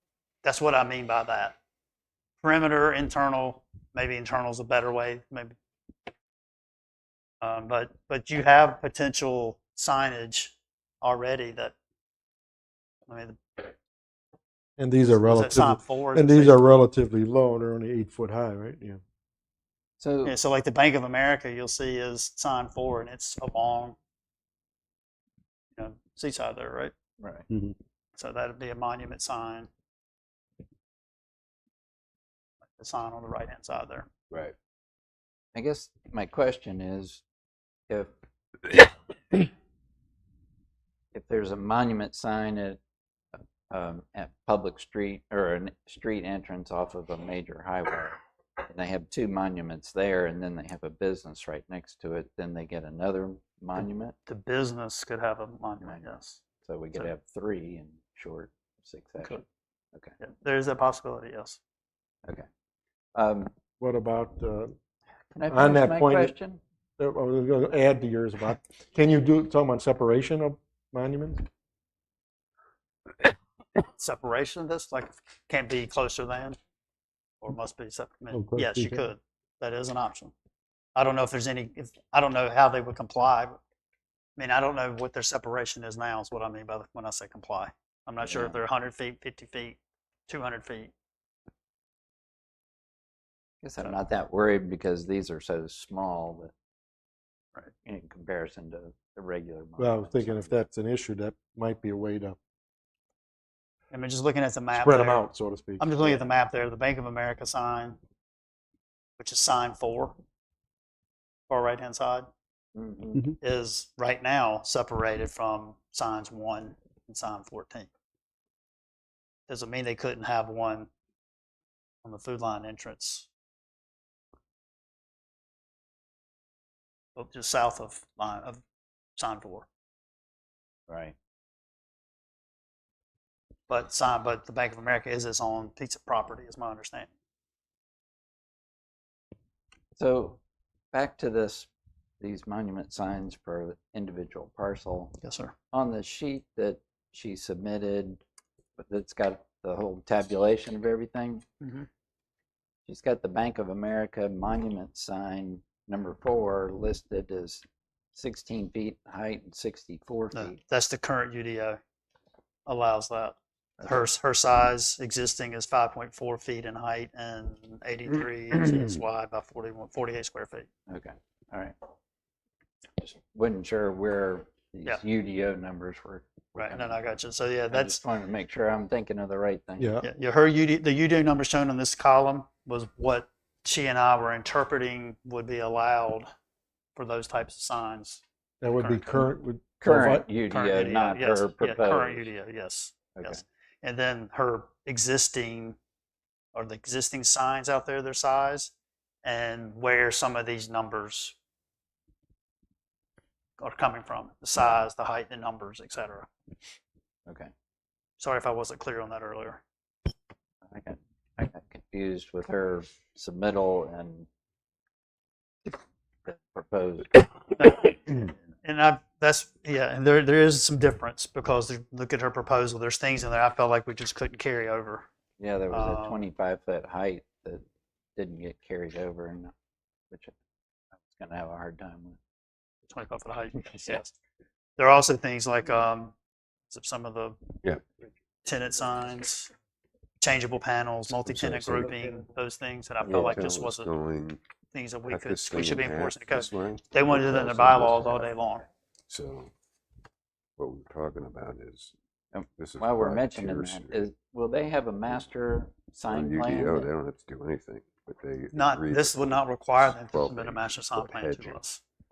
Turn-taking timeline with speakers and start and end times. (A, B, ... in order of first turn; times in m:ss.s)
0:00.4-0:01.6 A
0:02.4-0:05.5 A
0:07.4-0:11.7 A
0:13.1-0:13.7 A
0:14.8-0:19.0 B
0:15.0-0:16.7 A
0:20.0-0:20.4 C
0:20.2-0:24.0 A
0:25.7-0:26.9 A
0:27.2-0:27.4 C
0:28.1-0:29.7 A
0:32.8-0:34.1 A
0:35.5-0:37.2 C
0:41.1-0:42.8 C
0:43.3-0:54.2 C
0:54.2-0:56.4 A
0:56.6-0:59.4 C
1:00.2-1:01.6 A
1:03.1-1:03.5 C
1:03.8-1:04.7 B
1:05.3-1:06.6 C
1:05.5-1:06.3 B
1:07.0-1:11.4 B
1:13.8-1:16.6 A
1:17.4-1:20.3 A
1:18.3-1:19.0 B
1:20.9-1:23.6 A
1:24.4-1:30.9 A
1:28.2-1:28.6 C
1:33.6-1:36.5 C
1:37.8-1:40.5 C
1:39.8-1:42.4 B
1:43.9-1:45.2 A
1:44.7-1:46.0 B
1:45.8-1:48.0 A
1:49.2-1:50.2 A
1:51.5-1:52.3 A
1:52.7-1:53.3 C
1:53.4-1:57.9 A
1:59.5-2:00.9 A
2:02.0-2:03.3 A
2:07.2-2:08.6 A
2:09.2-2:09.7 A
2:10.9-2:11.1 C
2:13.7-2:17.1 A
2:20.0-2:20.4 C
2:20.9-2:21.7 C
2:22.2-2:25.2 C
2:25.2-2:25.5 A
2:25.7-2:28.2 C
2:28.8-2:31.4 C
2:31.6-2:31.9 A
2:32.9-2:40.6 C
2:40.3-2:41.8 A
2:42.6-2:50.7 A
2:50.9-2:51.7 C
2:53.0-2:57.2 C
2:56.6-2:58.0 A
2:57.7-2:59.9 C
2:59.8-3:00.0 B
3:00.0-3:06.3 A
3:06.9-3:08.2 A
3:08.6-3:10.2 B
3:08.8-3:09.3 A
3:09.8-3:12.3 C
3:10.5-3:15.8 A
3:13.2-3:13.4 C
3:16.5-3:18.7 A
3:19.2-3:21.4 A
3:23.6-3:26.3 A
3:24.5-3:24.8 C
3:28.2-3:29.6 A
3:30.7-3:34.3 C
3:35.6-3:37.2 C
3:37.6-3:45.0 A
3:45.4-3:47.6 C
3:45.7-3:46.2 A
3:48.2-3:49.5 C
3:50.9-3:52.2 C
3:52.9-3:54.1 A
3:54.8-3:56.1 A
3:56.7-3:57.4 A
3:58.4-3:59.5 A
4:00.2-4:03.9 A
4:01.2-4:02.0 D
4:03.0-4:04.4 D
4:03.1-4:03.4 C
4:04.7-4:08.6 A
4:05.0-4:08.3 D
4:09.1-4:09.5 D
4:10.6-4:11.9 D
4:12.3-4:16.9 C
4:12.6-4:14.1 D
4:16.1-4:21.6 D
4:18.5-4:21.8 A